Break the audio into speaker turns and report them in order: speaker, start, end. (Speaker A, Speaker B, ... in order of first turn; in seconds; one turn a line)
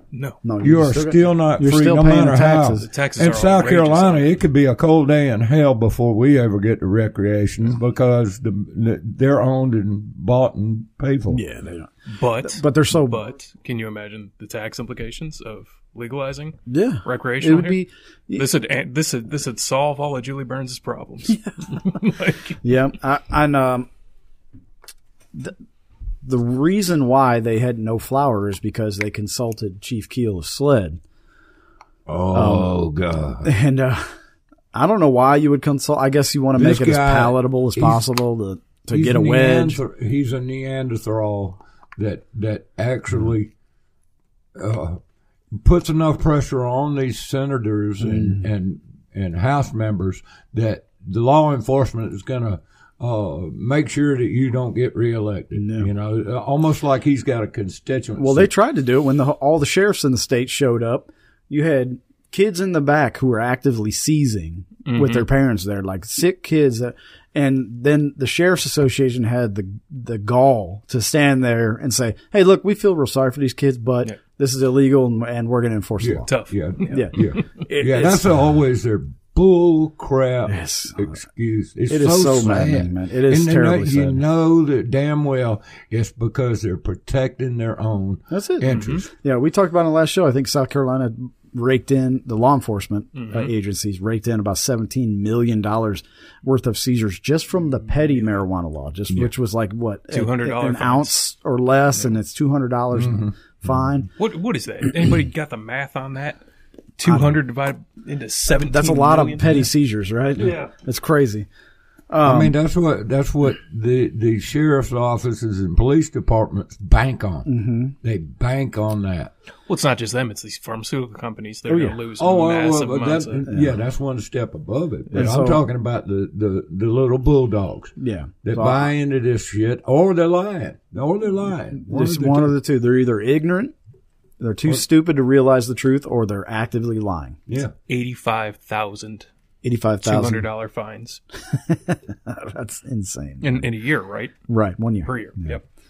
Speaker A: 0.1-0.4
Speaker B: 0.4-2.9
Speaker C: 0.6-11.4
Speaker A: 2.8-4.2
Speaker B: 11.3-11.9
Speaker A: 12.1-17.8
Speaker B: 12.4-13.2
Speaker B: 16.7-18.4
Speaker A: 18.3-22.6
Speaker B: 22.6-23.9
Speaker B: 26.2-31.0
Speaker C: 32.1-33.5
Speaker B: 32.3-32.7
Speaker B: 33.4-34.1
Speaker B: 34.7-39.8
Speaker C: 36.5-38.0
Speaker C: 38.9-43.5
Speaker C: 44.5-45.0
Speaker C: 45.5-58.5
Speaker B: 48.0-48.5
Speaker B: 55.5-55.9
Speaker B: 58.2-76.3
Speaker A: 64.9-65.3
Speaker C: 76.0-89.1
Speaker A: 76.3-77.3
Speaker B: 76.9-78.3
Speaker B: 80.5-81.2
Speaker B: 81.9-84.2
Speaker B: 88.3-104.1
Speaker A: 88.7-89.0
Speaker A: 93.1-93.5
Speaker A: 100.1-101.1
Speaker C: 102.9-103.3
Speaker A: 104.2-106.4
Speaker A: 107.0-109.7
Speaker B: 107.0-107.4
Speaker B: 108.5-111.5
Speaker C: 110.4-110.7
Speaker A: 110.4-110.7
Speaker B: 112.1-112.5
Speaker C: 112.2-117.5
Speaker B: 117.5-117.9
Speaker C: 118.0-119.3
Speaker A: 119.7-123.5
Speaker B: 121.7-122.0
Speaker C: 122.2-132.5
Speaker B: 125.1-125.6
Speaker B: 128.0-128.9
Speaker B: 131.8-133.7
Speaker B: 134.4-137.4
Speaker C: 137.5-137.7
Speaker A: 137.9-139.3
Speaker B: 139.6-140.4
Speaker A: 140.0-141.2
Speaker B: 141.5-143.7
Speaker A: 143.4-144.3
Speaker B: 144.5-145.6
Speaker A: 145.0-145.6